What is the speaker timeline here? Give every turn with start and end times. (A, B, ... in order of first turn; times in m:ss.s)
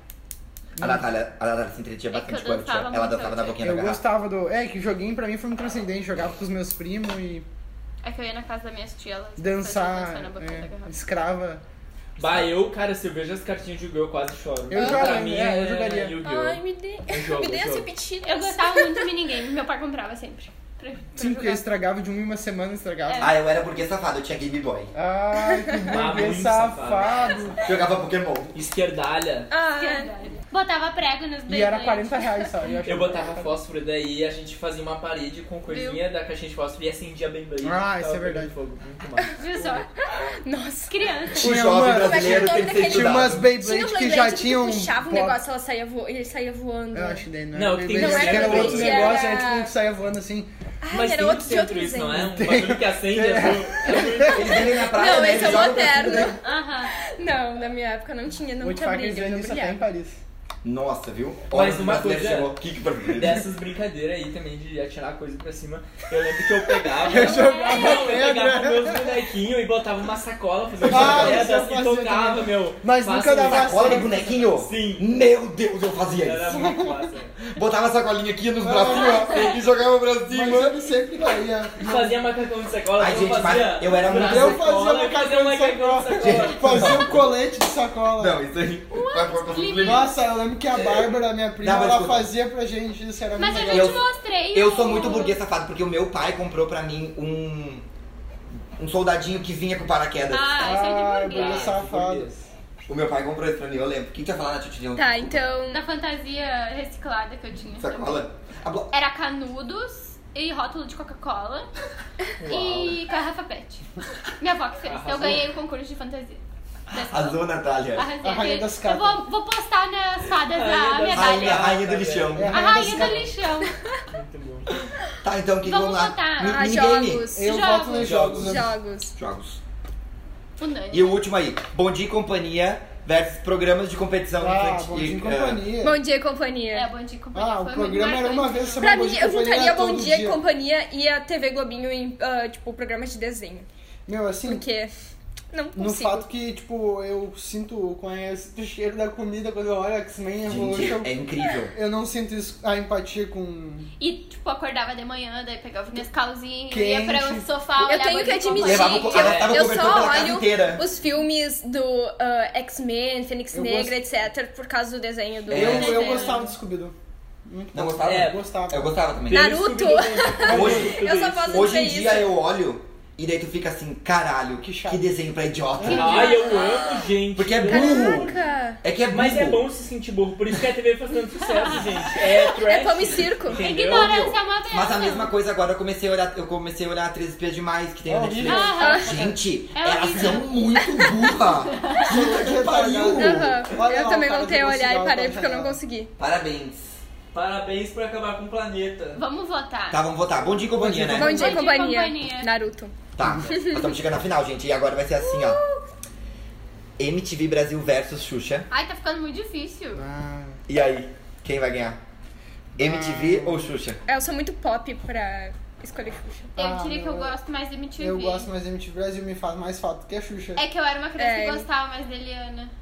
0:00.8-0:01.0 A
0:00.8-0:04.0 B
0:02.1-0:03.6 C
0:03.6-0:07.5 A
0:08.0-0:10.9 C
0:09.4-0:11.6 A
0:12.2-0:17.9 D
0:14.7-0:16.2 A
0:14.7-0:15.4 E
0:16.2-0:19.1 E
0:18.2-0:21.6 C
0:21.2-0:23.3 A
0:23.1-0:23.4 C
0:23.2-0:24.9 B
0:24.9-0:27.8 A
0:25.9-0:27.4 D
0:27.6-0:28.6 B
0:28.5-0:29.5 D
0:29.5-0:30.1 E
0:29.7-0:32.1 C
0:31.5-0:33.5 A
0:32.8-0:39.9 D
0:35.7-0:36.0 C
0:37.6-0:38.5 A
0:39.4-0:39.9 C
0:40.3-0:47.2 E
0:40.9-0:41.6 C
0:41.4-0:43.5 B
0:41.4-0:45.4 A
0:46.9-0:50.5 A
0:47.5-0:49.3 D
0:47.9-0:49.7 E
0:50.8-0:52.2 E
0:50.9-0:54.8 D
0:52.1-0:56.4 A
0:54.3-0:56.3 B
0:54.7-0:59.8 E
0:56.4-0:56.9 C
0:58.6-1:00.2 A
1:00.6-1:03.4 B
1:01.5-1:02.6 D
1:03.1-1:15.1 D
1:07.0-1:09.1 A
1:07.1-1:08.2 E
1:10.8-1:14.2 A
1:10.8-1:11.5 B
1:13.4-1:16.5 B
1:16.2-1:17.4 D
1:16.5-1:17.0 A
1:17.5-1:20.8 B
1:18.6-1:19.5 A
1:18.9-1:19.6 C
1:20.3-1:22.2 A
1:21.8-1:27.1 D
1:23.0-1:24.6 B
1:24.1-1:28.4 A
1:26.1-1:27.2 B
1:28.2-1:30.1 B
1:28.9-1:30.1 C
1:29.8-1:34.0 A
1:31.6-1:32.3 B
1:33.4-1:35.4 C
1:33.6-1:37.9 B
1:38.8-1:40.7 B
1:40.3-1:41.7 C
1:40.6-1:42.3 A
1:41.2-1:42.5 D
1:42.9-1:45.1 B
1:45.0-1:45.8 E
1:45.7-1:48.3 C
1:47.8-1:48.9 B
1:48.9-1:51.7 C
1:52.4-1:53.0 D
1:52.5-1:53.9 C
1:54.4-1:57.4 C
1:54.8-1:55.5 D
1:56.9-1:58.1 B
1:57.9-2:01.8 C
1:58.2-1:59.2 A
2:00.4-2:03.3 D
2:01.1-2:02.7 B
2:02.3-2:03.3 A
2:02.5-2:03.7 C
2:04.1-2:04.7 D
2:05.2-2:07.3 B
2:05.6-2:06.7 C
2:06.4-2:07.6 E
2:07.3-2:08.7 A
2:07.4-2:08.2 C
2:08.0-2:09.6 B
2:08.3-2:09.1 E
2:10.6-2:11.2 C
2:10.9-2:15.7 B
2:14.4-2:16.0 A
2:15.8-2:16.9 E
2:16.7-2:18.9 C
2:17.3-2:20.4 A
2:18.8-2:23.7 E
2:24.1-2:24.6 A
2:24.4-2:24.9 E
2:25.5-2:26.2 E
2:25.8-2:31.2 A
2:30.4-2:31.8 B
2:31.7-2:33.9 A
2:34.0-2:39.3 C
2:36.7-2:37.5 A
2:37.8-2:46.2 E
2:38.6-2:40.8 B
2:39.1-2:39.7 D
2:43.5-2:43.9 A
2:45.5-2:46.1 B
2:45.5-2:49.0 A
2:45.5-2:46.6 C
2:47.7-2:49.6 B
2:48.0-2:48.4 D
2:49.3-2:51.8 D
2:49.3-2:52.3 E
2:50.5-2:51.0 A
2:50.5-2:56.4 B
2:54.6-2:55.0 A
2:55.8-2:56.3 A
2:55.8-2:57.0 C
2:55.9-2:58.2 D
2:56.5-2:57.0 E
2:57.4-2:59.6 B
2:57.7-2:58.8 E
2:58.1-2:58.4 A
2:59.1-3:04.3 D
3:01.4-3:01.8 C
3:02.5-3:03.7 E
3:03.6-3:05.3 C
3:03.8-3:13.6 B
3:08.1-3:09.4 A
3:08.4-3:09.2 C
3:08.8-3:09.2 E
3:09.7-3:12.3 C
3:10.8-3:11.3 E
3:12.0-3:15.8 A
3:13.2-3:16.1 E
3:16.2-3:16.9 B
3:17.3-3:19.2 D
3:19.2-3:20.1 C
3:19.9-3:21.6 B
3:20.8-3:21.6 A
3:21.1-3:24.0 E
3:21.1-3:22.5 C
3:23.2-3:25.6 B
3:23.2-3:23.5 A
3:25.2-3:25.8 E
3:27.0-3:28.7 B
3:28.7-3:30.0 C
3:30.0-3:30.6 A
3:30.7-3:32.0 B
3:32.8-3:33.7 A
3:32.8-3:34.0 B
3:34.1-3:36.6 E
3:36.6-3:37.4 A
3:36.6-3:38.5 C
3:38.0-3:40.6 A
3:40.6-3:42.7 C
3:41.2-3:41.7 E